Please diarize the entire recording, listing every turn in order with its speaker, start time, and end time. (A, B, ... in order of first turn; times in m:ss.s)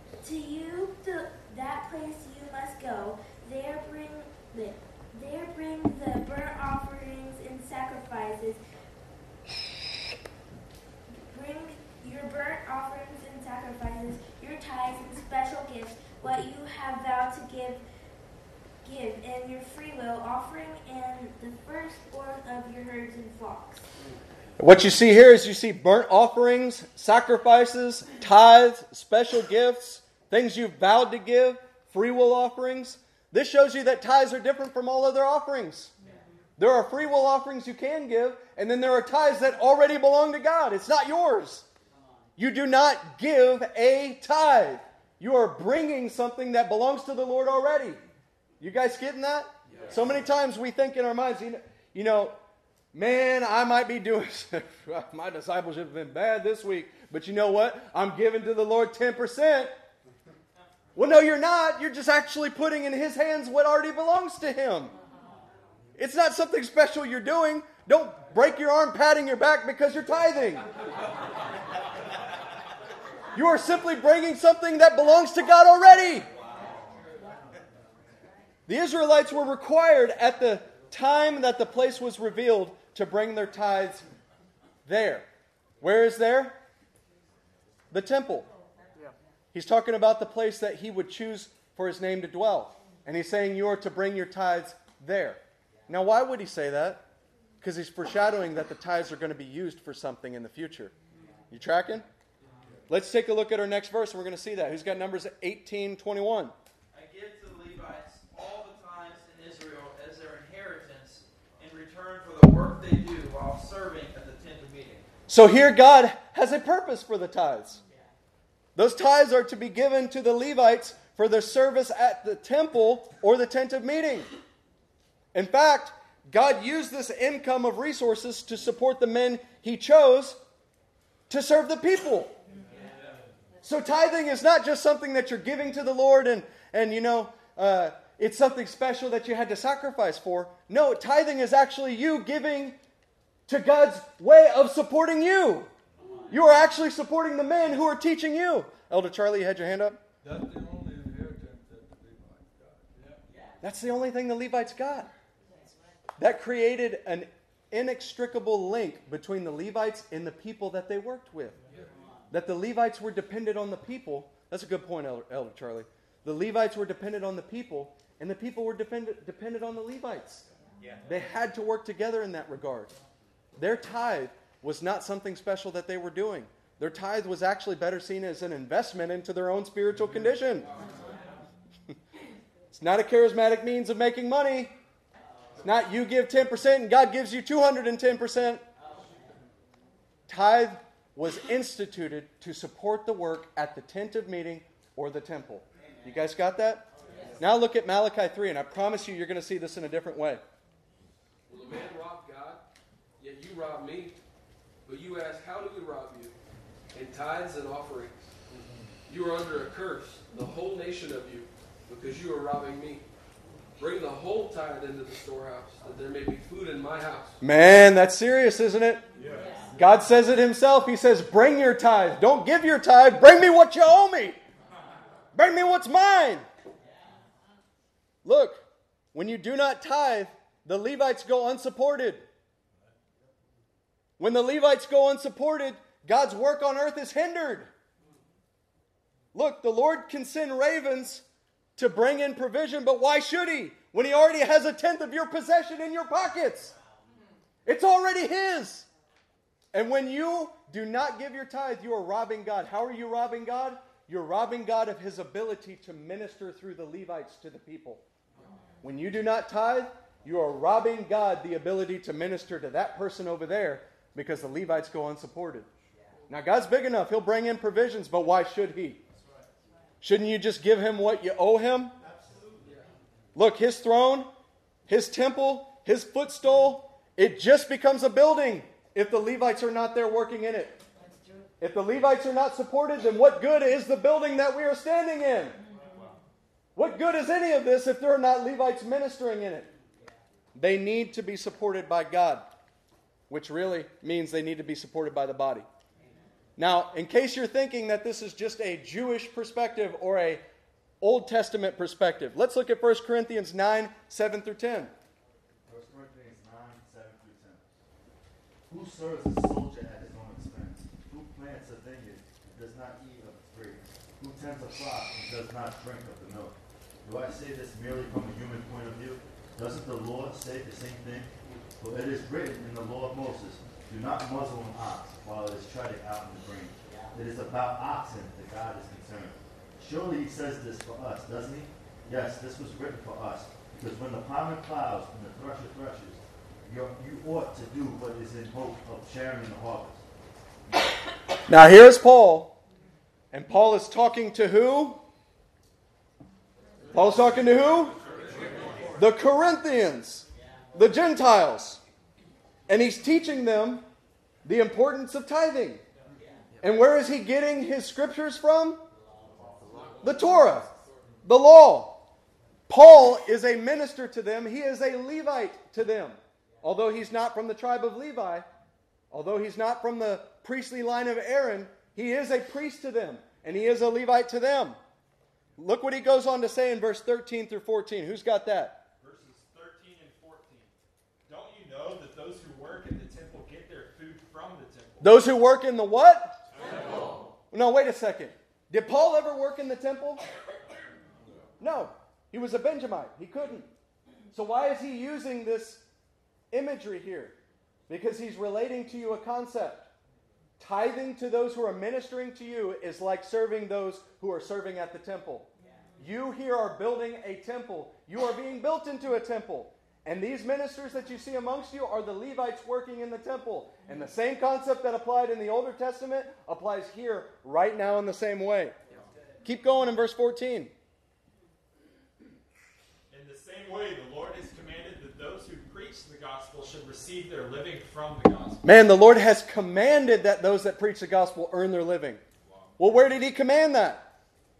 0:00.2-0:08.6 A
0:11.3-0:17.8 A
0:18.8-0:23.8 A
0:24.6-0:35.9 B
0:36.6-0:41.7 B
0:42.4-0:48.0 B
0:48.6-0:52.4 B
0:52.9-0:59.7 B
1:01.0-1:04.9 B
1:06.0-1:10.6 B
1:13.3-1:16.3 B
1:18.7-1:24.0 B
1:24.9-1:25.3 B
1:25.8-1:26.6 B
1:27.9-1:28.5 B
1:29.5-1:37.0 B
1:37.6-1:40.9 B
1:41.5-1:42.1 B
1:42.9-1:46.5 B
1:46.9-1:55.1 C
1:55.3-1:57.8 B
1:58.8-2:04.3 B
2:05.3-2:10.4 B
2:11.3-2:12.3 B
2:13.6-2:22.8 B
2:23.5-2:25.7 B
2:26.3-2:30.0 B
2:30.2-2:32.7 D
2:33.6-2:35.1 B
2:36.2-2:41.6 B
2:42.3-2:50.4 B
2:51.1-2:53.0 B
2:53.6-3:00.7 B
3:02.7-3:04.7 B
3:05.6-3:08.6 B
3:10.3-3:16.9 B
3:17.4-3:20.4 B
3:21.5-3:22.6 E
3:23.2-3:24.2 E
3:24.9-3:26.3 E
3:26.9-3:28.2 E
3:29.1-3:33.0 E
3:33.8-3:37.4 E
3:37.4-3:39.0 B
3:39.8-3:44.4 B
3:45.4-3:46.5 B
3:48.2-3:48.6 B
3:49.1-3:52.2 B
3:54.2-3:57.7 B
3:59.3-4:01.2 B
4:01.8-4:06.7 B
4:07.6-4:08.9 B
4:09.7-4:18.0 B
4:18.8-4:25.7 B
4:26.3-4:29.0 B
4:30.0-4:31.9 B
4:32.6-4:32.9 E
4:33.4-4:34.3 B
4:34.9-4:40.8 B
4:41.6-4:45.6 B
4:46.8-4:49.7 B
4:50.6-4:52.5 B
4:53.3-4:55.7 B
4:56.6-5:00.4 B
5:01.0-5:04.9 B
5:05.7-5:07.7 F
5:08.7-5:40.0 F
5:41.5-5:42.6 B
5:43.3-5:45.0 B
5:46.9-5:48.0 B
5:49.0-5:51.8 B
5:52.7-5:53.8 B
5:54.4-5:55.8 B
5:56.6-5:58.8 B
6:00.0-6:00.7 B
6:01.2-6:02.0 B
6:02.7-6:08.4 B
6:09.1-6:14.8 B
6:15.6-6:18.8 B
6:19.0-6:20.5 G
6:21.3-6:25.0 G
6:25.0-6:26.4 B
6:27.5-6:30.2 B
6:31.6-6:33.7 B
6:34.3-6:35.8 B
6:36.5-6:37.4 B
6:37.9-6:39.9 B
6:40.6-6:45.5 B
6:46.0-6:58.8 B
6:59.4-7:00.7 B
7:03.1-7:08.3 G
7:08.6-7:12.2 B
7:12.8-7:14.1 B